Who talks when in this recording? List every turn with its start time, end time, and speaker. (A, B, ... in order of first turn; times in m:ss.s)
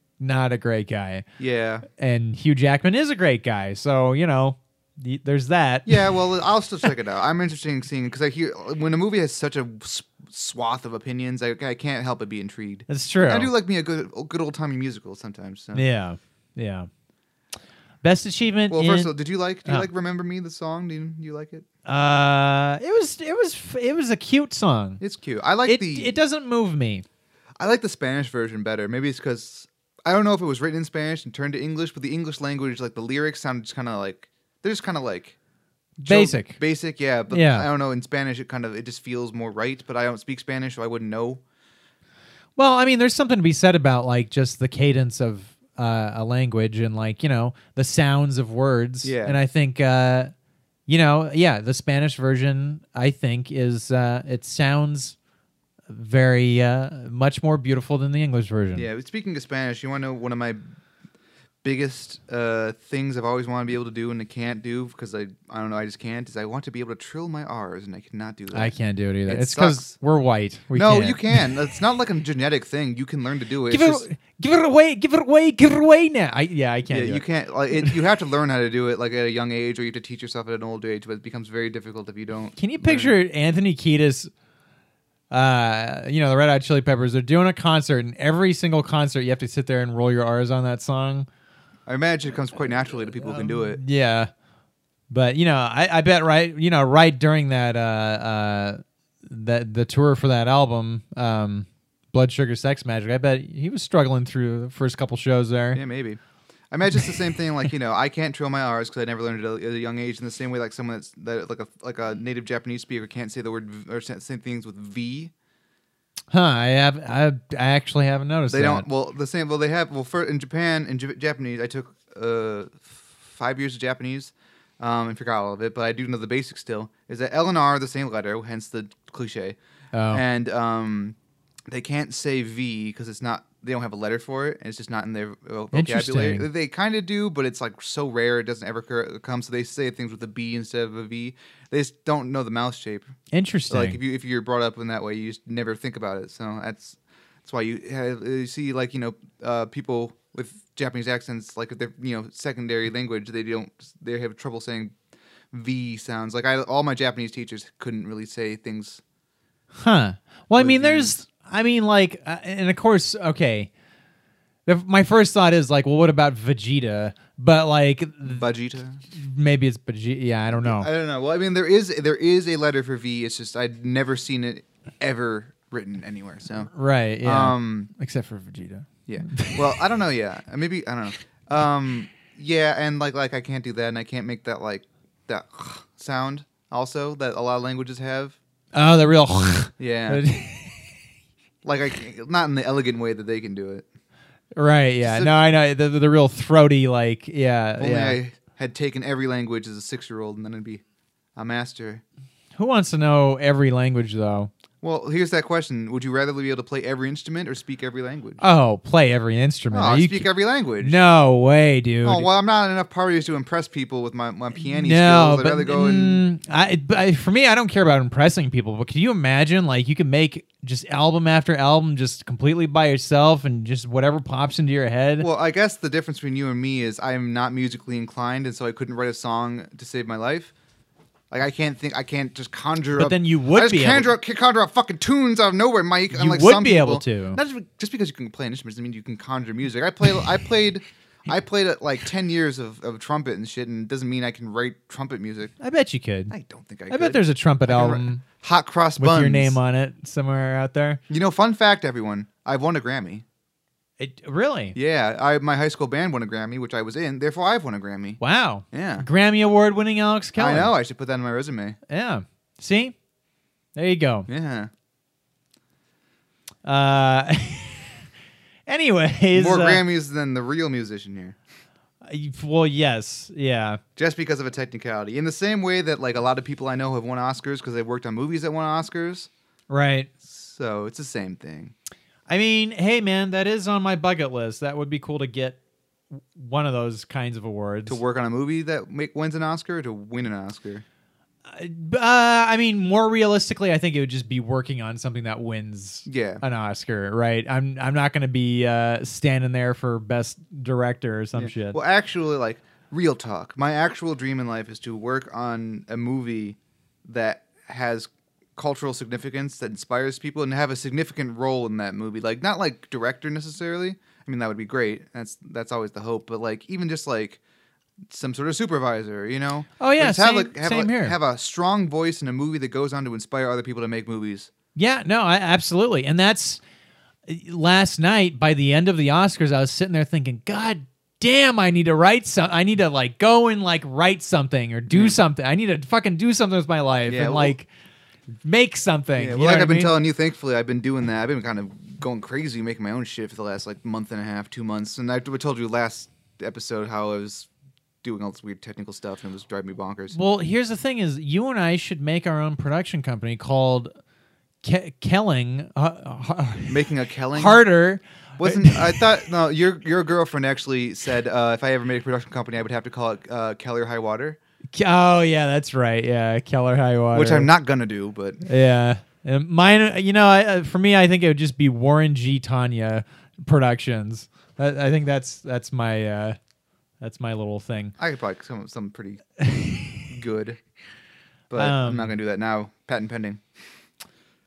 0:00.2-0:01.2 A
0:01.4-0:01.9 B
0:01.9-0:06.2 A
0:05.9-0:15.9 B
0:12.9-0:13.5 A
0:15.7-0:16.9 A
0:18.0-0:19.1 A
0:18.7-0:21.6 B
0:21.8-0:25.0 A
0:25.0-0:26.2 B
0:25.6-0:27.0 A
0:27.6-0:35.4 B
0:36.0-0:36.6 A
0:36.0-0:41.4 B
0:37.3-0:37.7 A
0:42.6-0:50.3 A
0:49.0-0:49.4 B
0:50.9-0:55.2 A
0:55.9-0:58.9 A
0:58.8-1:00.6 B
1:01.6-1:08.7 B
1:08.5-1:11.5 A
1:09.3-1:10.0 B
1:10.7-1:14.1 B
1:13.7-1:17.2 A
1:16.9-1:23.2 B
1:22.6-1:24.3 A
1:25.3-1:31.3 A
1:31.9-1:33.8 B
1:33.2-1:34.3 A
1:35.1-1:45.8 A
1:45.7-1:46.2 B
1:46.7-1:55.3 B
1:56.3-1:58.9 A
1:58.5-2:09.6 B
2:09.9-2:10.2 A
2:10.1-2:11.2 B
2:11.7-2:23.2 B
2:15.7-2:16.5 A
2:23.3-2:24.0 A
2:23.7-2:34.9 B
2:35.5-2:39.0 B
2:39.8-2:43.7 A
2:40.6-2:41.2 B
2:44.7-2:48.5 A
2:48.2-2:49.0 B
2:49.1-2:50.9 A
2:50.6-2:56.7 B
2:56.7-2:59.8 A
2:57.2-2:57.9 B
2:59.1-3:08.4 B
3:08.7-3:11.0 A
3:09.8-3:10.2 B
3:11.6-3:13.9 B
3:14.5-3:18.2 A
3:15.0-3:15.3 B
3:17.8-3:20.8 B
3:21.4-3:22.0 B
3:22.6-3:24.5 A
3:24.8-3:28.4 B
3:28.4-3:30.3 A
3:29.7-3:31.0 B
3:30.8-3:32.3 A
3:32.0-3:36.2 B
3:34.7-3:45.3 A
3:45.2-3:50.5 B
3:51.3-4:05.5 B
3:53.0-3:54.1 A
3:56.1-3:57.4 A
4:05.6-4:06.3 A
4:06.3-4:09.6 B
4:06.9-4:08.2 A
4:09.0-4:11.0 A
4:11.1-4:13.2 B
4:14.0-4:14.8 A
4:14.8-4:18.2 B
4:18.2-4:20.7 A
4:18.7-4:19.1 B
4:20.4-4:21.8 B
4:21.9-4:23.0 A
4:23.8-4:24.3 A
4:24.3-4:24.7 B
4:26.6-4:28.1 A
4:28.7-4:29.8 A
4:29.3-4:31.4 B
4:32.0-4:33.8 A
4:34.0-4:39.3 B
4:39.7-4:40.1 A
4:40.2-4:41.7 B
4:42.3-4:45.6 A
4:46.2-4:48.0 A
4:47.9-4:50.8 B
4:51.4-5:01.8 A
4:56.1-4:56.4 B
5:01.4-5:17.4 B
5:18.1-5:24.5 B
5:19.8-5:21.2 A
5:24.8-5:26.6 A
5:27.3-5:37.7 A
5:34.9-5:35.2 B
5:37.1-5:37.6 B
5:38.4-5:39.9 A
5:39.2-5:47.5 B
5:48.0-5:50.2 B
5:50.1-5:53.9 A
5:54.6-5:59.1 A
5:56.7-5:57.6 B
5:58.4-6:04.4 B
6:04.7-6:07.5 A
6:07.1-6:08.4 B
6:08.4-6:16.4 A
6:17.0-6:18.0 A
6:18.0-6:19.2 B
6:19.4-6:20.1 A
6:20.1-6:20.6 B
6:21.5-6:23.4 B
6:21.6-6:22.2 A